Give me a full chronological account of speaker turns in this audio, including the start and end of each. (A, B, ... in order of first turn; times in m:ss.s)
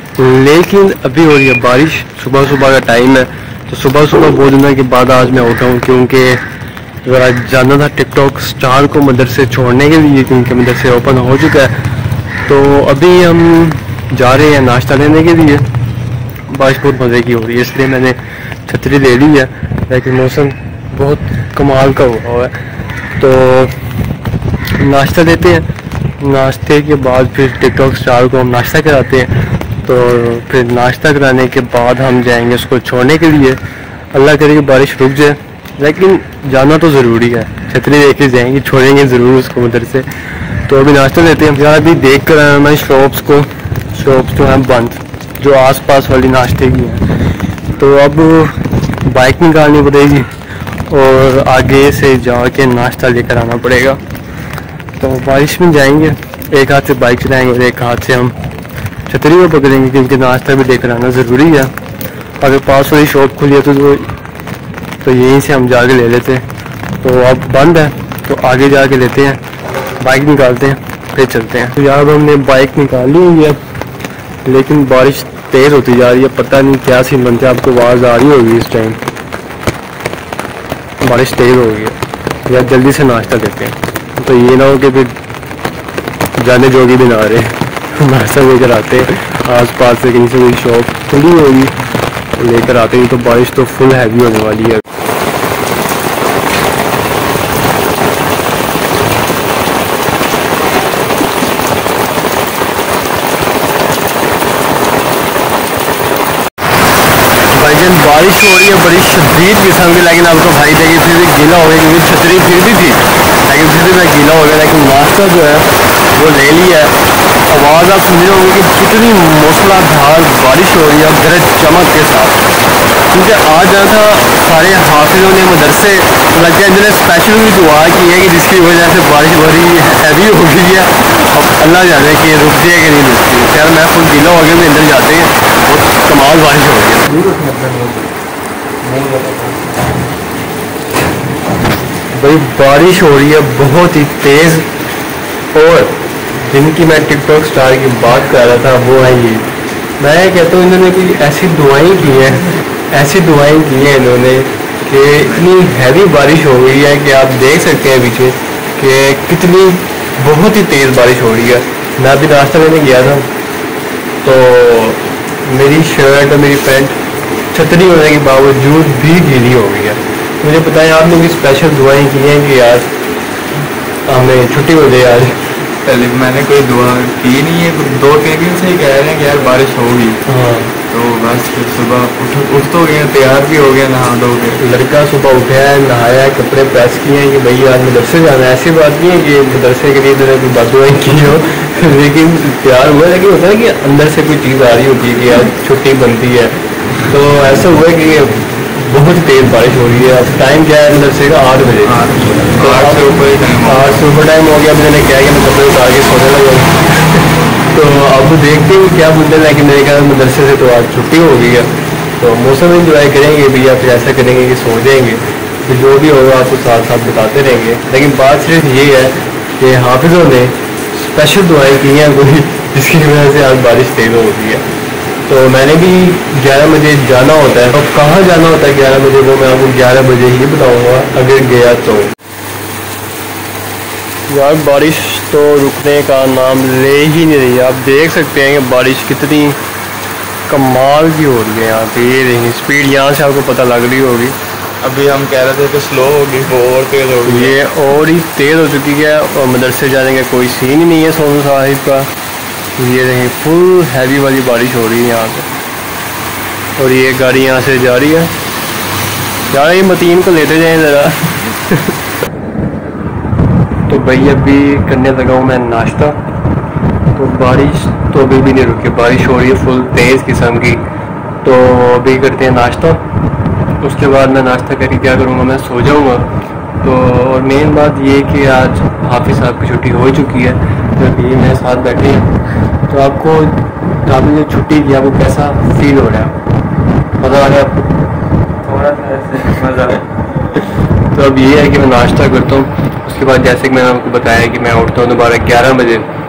0:00.2-0:06.4 A
0:07.0-0:11.7 A
0:12.4-0:15.7 A
0:16.5-0:22.5 A
0:23.2-0:23.8 A
0:24.8-0:25.7 A
0:26.2-0:33.6 A
0:34.1-0:40.1 A
0:40.6-0:47.0 A
0:47.8-0:50.3 A
0:50.9-0:54.0 A
0:55.0-0:58.3 A
0:59.1-1:01.7 A
1:02.4-1:04.1 A
1:05.0-1:06.4 A
1:07.0-1:09.4 A
1:10.0-1:13.6 A
1:14.4-1:19.0 A
1:21.0-1:25.2 A
1:26.4-1:31.7 A
1:32.4-1:34.8 A
1:47.5-1:56.9 A
1:57.5-2:02.4 A
2:03.1-2:17.2 A
2:17.2-2:18.1 B
2:18.8-2:19.7 B
2:22.1-2:24.7 A
2:25.5-2:29.4 A
2:30.0-2:43.3 A
2:44.2-2:47.0 A
2:47.5-2:52.9 A
2:54.1-2:55.4 A
2:55.8-3:00.2 B
3:00.2-3:00.8 A
3:00.9-3:04.6 B
3:04.6-3:16.5 A
3:17.1-3:22.0 A
3:21.9-3:23.9 B
3:22.6-3:44.6 A
3:45.3-3:52.1 A
3:54.3-3:59.6 A
4:00.5-4:04.4 A
4:04.8-4:07.5 B
4:07.3-4:12.1 A
4:12.8-4:15.5 A
4:16.8-4:18.3 A
4:19.5-4:21.9 A
4:23.9-4:26.2 A
4:27.1-4:30.8 A
4:31.4-4:33.0 A
4:33.8-4:36.3 A
4:36.8-4:42.3 A
4:42.9-4:46.4 A
4:47.2-4:47.9 A
4:48.6-4:56.1 A